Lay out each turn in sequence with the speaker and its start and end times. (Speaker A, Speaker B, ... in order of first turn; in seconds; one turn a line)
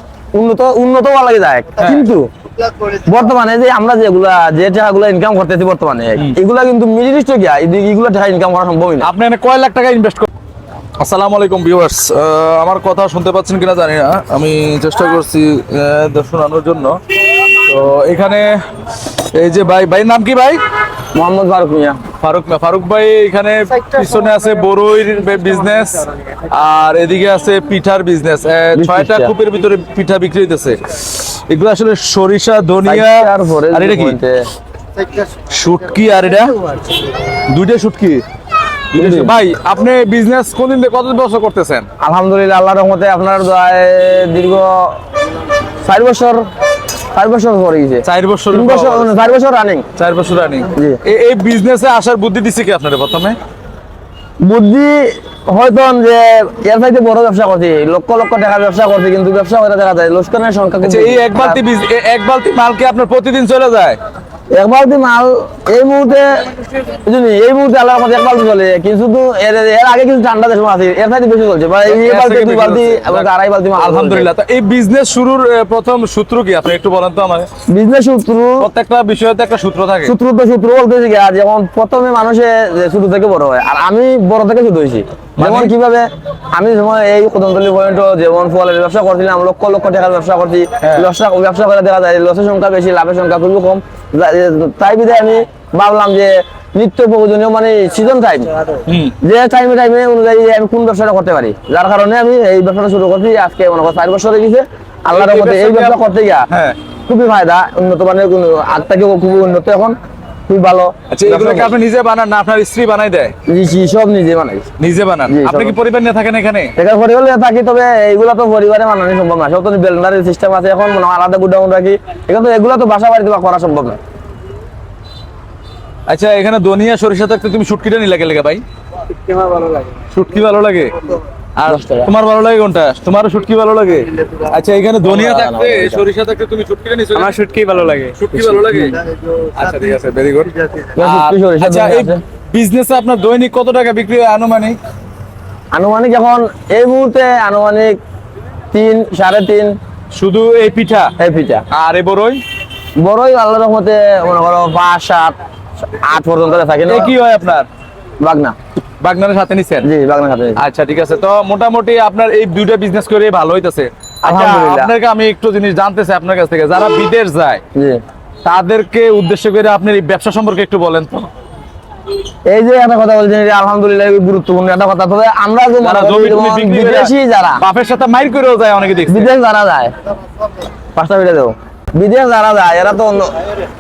Speaker A: 0.3-2.3
Speaker A: 2.9-9.1
Speaker B: 9.0-10.3
Speaker B: 11.0-17.0
Speaker B: 17.5-20.6
Speaker A: 21.1-22.0
Speaker B: 22.2-34.2
Speaker A: 28.7-29.3
Speaker A: 32.8-34.4
Speaker B: 35.5-36.7
Speaker B: 37.5-38.2
Speaker B: 38.9-41.9
Speaker A: 39.0-39.4
Speaker A: 42.0-45.0
Speaker A: 45.8-46.5
Speaker A: 47.1-49.9
Speaker B: 48.0-49.2
Speaker B: 50.0-53.4
Speaker A: 50.7-51.0
Speaker A: 54.4-61.6
Speaker B: 60.8-64.0
Speaker A: 64.5-66.4
Speaker A: 67.0-74.3
Speaker B: 71.9-77.5
Speaker A: 77.7-78.7
Speaker B: 78.6-80.1
Speaker A: 80.0-98.7
Speaker B: 85.4-85.7
Speaker B: 90.8-91.1
Speaker B: 98.9-99.1
Speaker A: 99.2-106.5
Speaker B: 105.1-106.0
Speaker B: 106.5-106.8
Speaker A: 107.1-110.0
Speaker A: 110.5-111.7
Speaker B: 111.1-113.3
Speaker A: 113.5-114.7
Speaker B: 114.8-116.7
Speaker A: 115.3-115.7
Speaker A: 116.8-124.0
Speaker B: 126.1-128.6
Speaker C: 129.1-130.0
Speaker B: 130.1-130.9
Speaker B: 131.6-137.4
Speaker A: 131.7-132.1
Speaker A: 135.0-136.0
Speaker C: 137.1-138.2
Speaker B: 138.1-139.0
Speaker B: 139.5-144.8
Speaker A: 140.9-142.2
Speaker A: 145.7-148.0
Speaker A: 148.7-149.8
Speaker B: 150.1-151.1
Speaker A: 151.2-151.6
Speaker B: 151.7-152.4
Speaker A: 153.0-155.4
Speaker A: 156.0-157.1
Speaker B: 156.9-157.7
Speaker A: 158.2-158.6
Speaker B: 159.0-159.9
Speaker A: 159.8-160.6
Speaker B: 160.6-167.6
Speaker A: 164.2-164.9
Speaker A: 167.8-168.0
Speaker B: 168.4-171.3
Speaker A: 172.5-177.6
Speaker B: 175.8-179.3
Speaker A: 179.1-179.9
Speaker A: 180.9-183.3